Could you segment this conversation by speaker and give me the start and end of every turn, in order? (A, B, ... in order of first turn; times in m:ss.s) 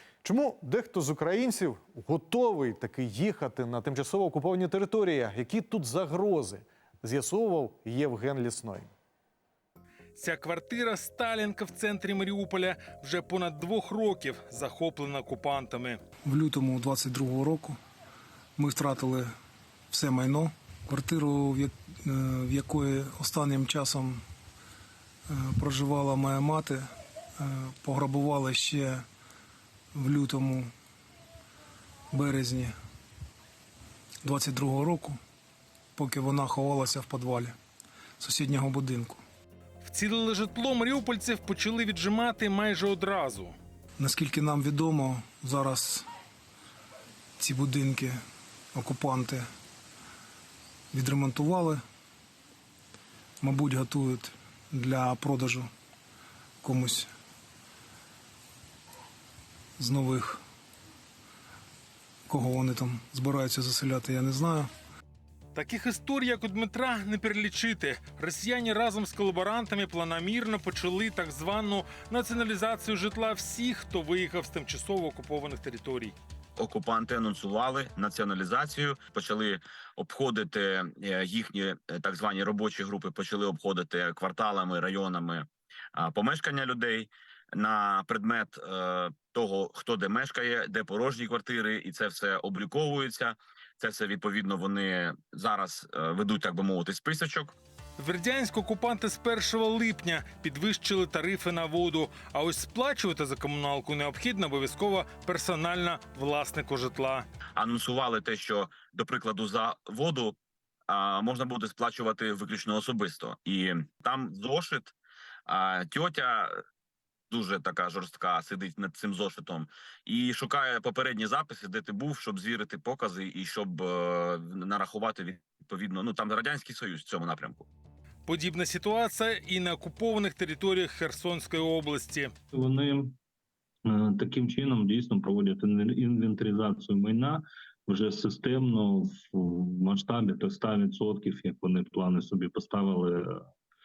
0:00.2-0:08.9 A
0:10.2-0:16.0 B
0:16.2-0:17.8 C
0:18.6-0:19.3 C
0:19.9-0:24.2 C
0:25.3-0:26.9 C
0:27.4-0:29.0 C
0:29.9-0:30.7 C
0:32.1-0:32.7 C
0:34.2-0:35.2 C
0:36.0-0:37.6 C
0:38.2-0:39.2 C
0:39.8-0:43.5 B
0:44.0-0:46.1 C
0:47.4-0:48.2 C
0:48.7-0:49.4 C
0:50.9-0:51.8 C
0:53.4-0:55.7 C
0:56.6-0:57.1 C
0:59.8-1:00.4 C
1:02.3-1:04.7 C
1:05.5-1:16.1 B
1:16.6-1:37.6 D
1:38.0-1:47.2 B
1:47.6-1:50.4 D
1:50.9-1:54.9 D
1:55.5-1:56.6 D
1:57.3-2:07.6 D
2:08.3-2:12.3 B
2:12.5-2:13.2 E
2:13.8-2:23.4 E